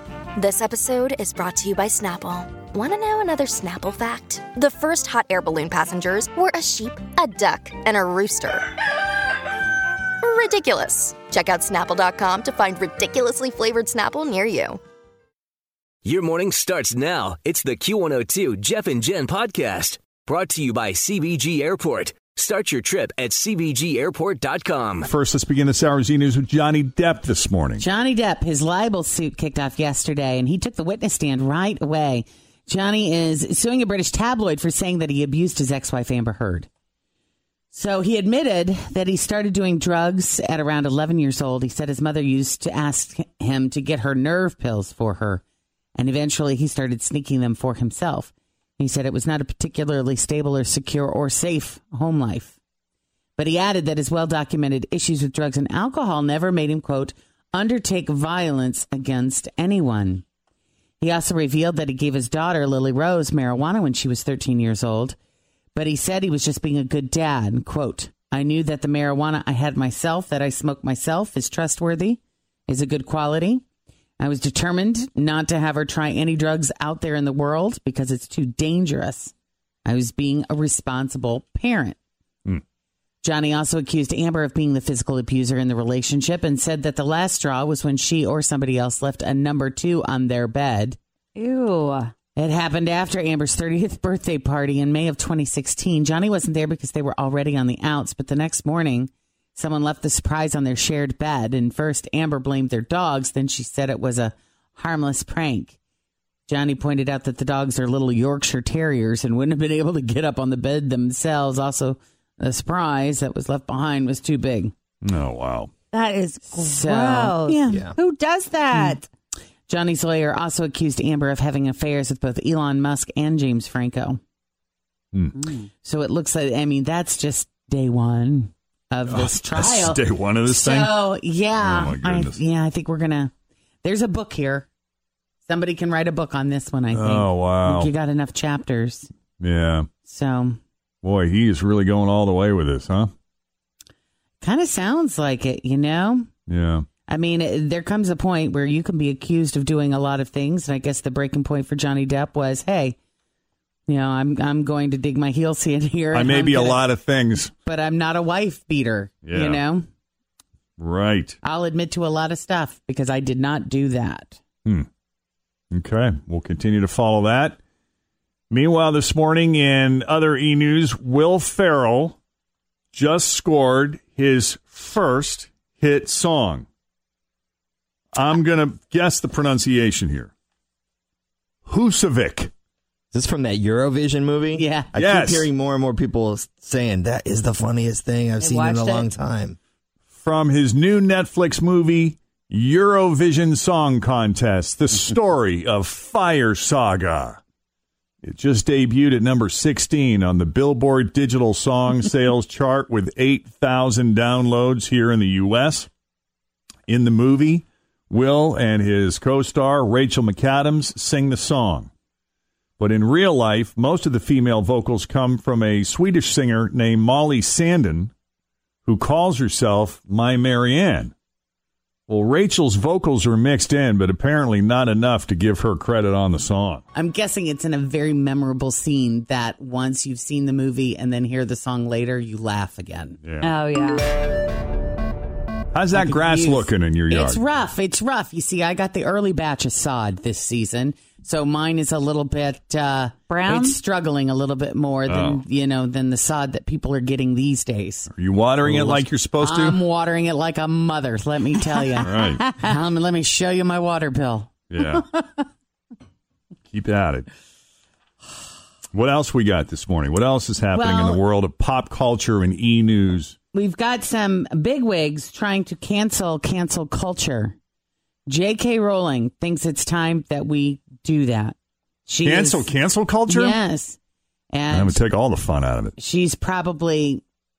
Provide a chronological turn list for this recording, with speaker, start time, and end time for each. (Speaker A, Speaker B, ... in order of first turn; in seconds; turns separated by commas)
Speaker A: 0.3-8.6, Speaker A: 10.2-14.8, Speaker B: 16.0-25.1, Speaker C: 25.1-27.8, Speaker D: 27.8-36.7, Speaker D: 37.7-45.4, Speaker D: 46.0-52.6, Speaker D: 53.4-60.2, Speaker D: 61.0-65.2, Speaker D: 65.7-73.6, Speaker D: 74.2-79.3, Speaker D: 79.8-82.0, Speaker D: 83.2-91.0, Speaker E: 91.3-92.1, Speaker D: 92.3-105.8, Speaker D: 106.5-114.7, Speaker C: 115.0-115.7, Speaker E: 115.9-119.0, Speaker D: 116.5-117.8, Speaker F: 117.7-117.9, Speaker D: 119.7-124.2, Speaker E: 125.3-125.7, Speaker D: 125.8-133.3, Speaker C: 129.1-130.9, Speaker C: 131.6-132.4, Speaker D: 133.8-134.7, Speaker D: 135.4-139.1, Speaker C: 136.9-137.9, Speaker C: 139.4-139.9, Speaker D: 140.0-140.6, Speaker C: 141.0-143.1, Speaker D: 144.4-146.3, Speaker C: 146.5-146.9, Speaker D: 147.1-152.9, Speaker D: 153.9-156.8, Speaker C: 156.1-157.5, Speaker D: 157.6-159.8, Speaker C: 159.2-159.6, Speaker C: 160.8-161.3, Speaker D: 161.4-164.4, Speaker C: 165.7-167.6, Speaker C: 168.5-172.2, Speaker C: 172.9-176.7, Speaker C: 178.1-180.3, Speaker C: 181.7-182.5, Speaker F: 183.1-189.6, Speaker D: 184.5-184.9, Speaker C: 184.9-185.5, Speaker E: 188.4-189.1, Speaker C: 190.1-197.4, Speaker C: 198.2-205.9, Speaker C: 206.9-211.9, Speaker C: 212.8-218.1, Speaker C: 218.8-221.1, Speaker C: 222.1-226.8, Speaker D: 226.9-233.2, Speaker C: 233.2-233.5, Speaker E: 233.4-234.1, Speaker C: 235.7-237.4, Speaker D: 235.9-248.1, Speaker E: 243.3-243.8, Speaker C: 245.1-245.4, Speaker C: 248.1-249.8, Speaker D: 248.6-254.5, Speaker C: 252.0-252.5, Speaker C: 254.7-255.1, Speaker C: 256.7-257.3, Speaker C: 258.9-263.3, Speaker D: 260.7-261.2, Speaker D: 263.5-267.6, Speaker D: 268.3-271.5, Speaker D: 272.1-272.7, Speaker C: 272.2-273.6, Speaker D: 273.3-274.0, Speaker D: 274.5-275.0, Speaker C: 274.7-275.9, Speaker D: 276.0-277.2